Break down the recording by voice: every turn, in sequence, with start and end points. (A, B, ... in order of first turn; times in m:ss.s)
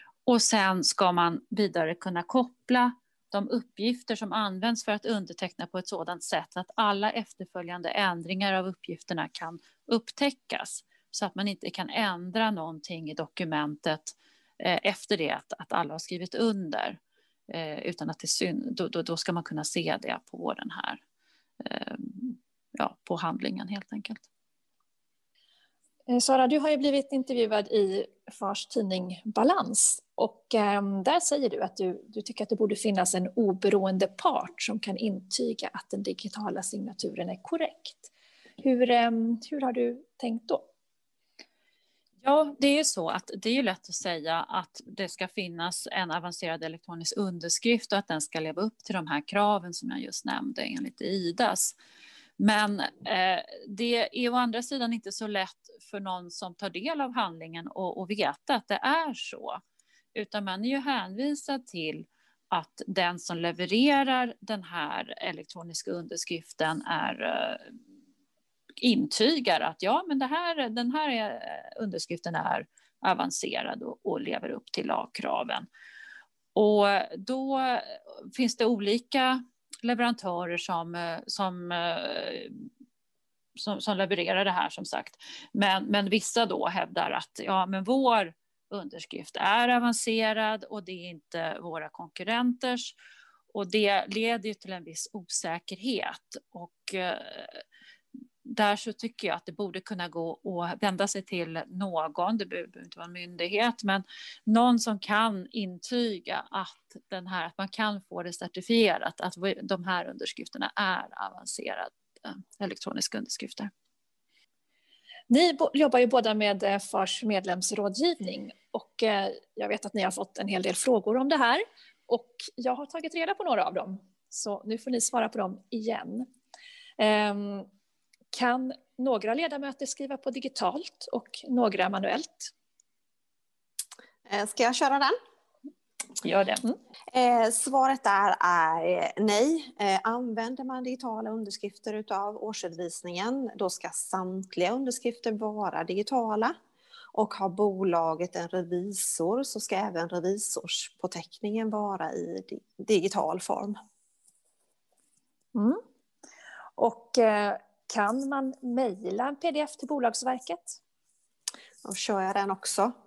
0:00.3-0:21.0 A
0:21.6-0:24.2 A
0:26.1-0:38.1 B
0:38.6-0:40.7 B
0:42.2-0:51.8 A
0:52.4-0:59.6 A
1:00.2-1:07.7 A
1:08.8-1:15.7 A
1:16.6-1:22.6 A
1:23.6-1:33.0 A
1:33.5-1:37.6 A
1:38.4-1:53.7 A
1:55.3-2:06.3 B
2:07.0-2:07.7 B
2:08.3-2:12.5 B
2:14.3-2:15.2 C
2:16.2-2:16.6 A
2:17.1-2:26.5 C
2:27.1-2:33.8 C
2:35.5-2:35.8 B
2:36.8-2:40.8 B
2:41.8-2:42.9 C